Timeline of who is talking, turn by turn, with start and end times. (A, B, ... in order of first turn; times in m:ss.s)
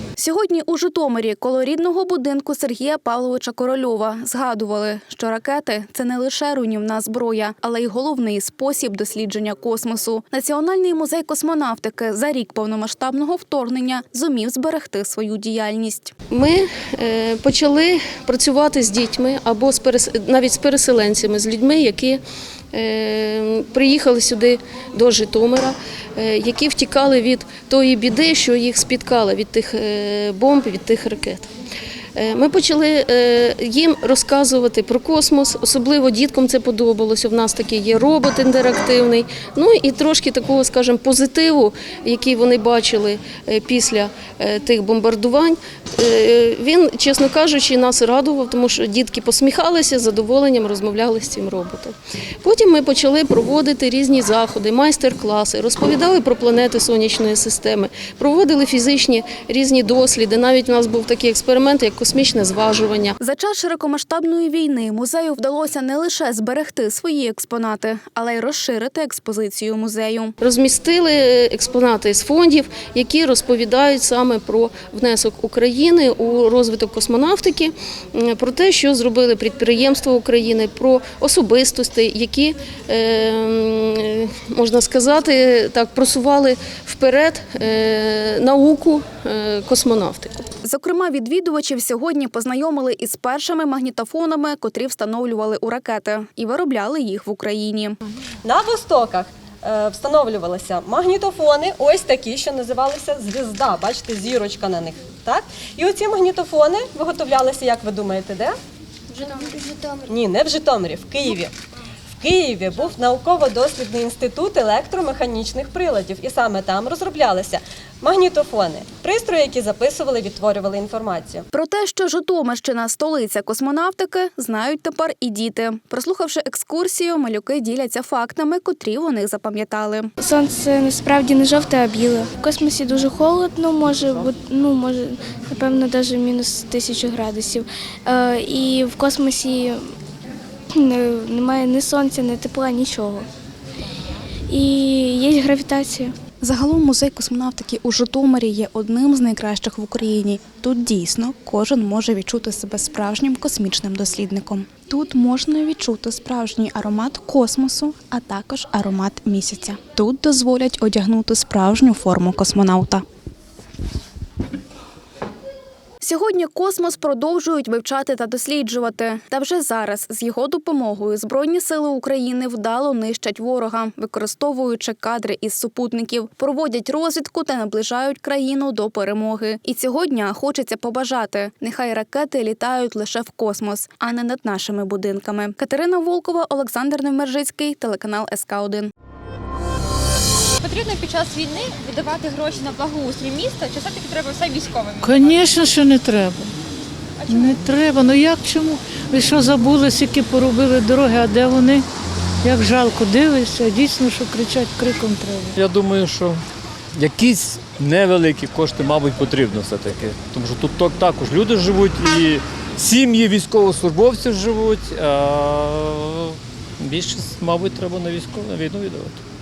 0:00.2-0:16.1 A
0:16.3-0:22.2 B
0:22.7-0:31.5 B
0:32.2-1:03.2 B
1:03.2-1:10.3 A
1:10.4-1:30.4 B
1:30.6-1:38.0 A
1:38.4-1:48.6 C
1:49.1-1:51.5 C
1:52.2-2:01.4 C
2:01.5-2:10.1 A
2:10.2-2:19.8 D
2:20.8-2:23.2 D
2:24.5-2:26.1 D
2:26.4-2:43.0 A
2:46.0-3:08.9 A
3:10.6-3:15.4 E
3:15.0-3:16.5 F
3:17.3-3:21.8 F
3:22.4-3:25.6 F
3:25.6-3:26.4 G
3:27.0-3:36.2 G
3:36.8-3:39.2 G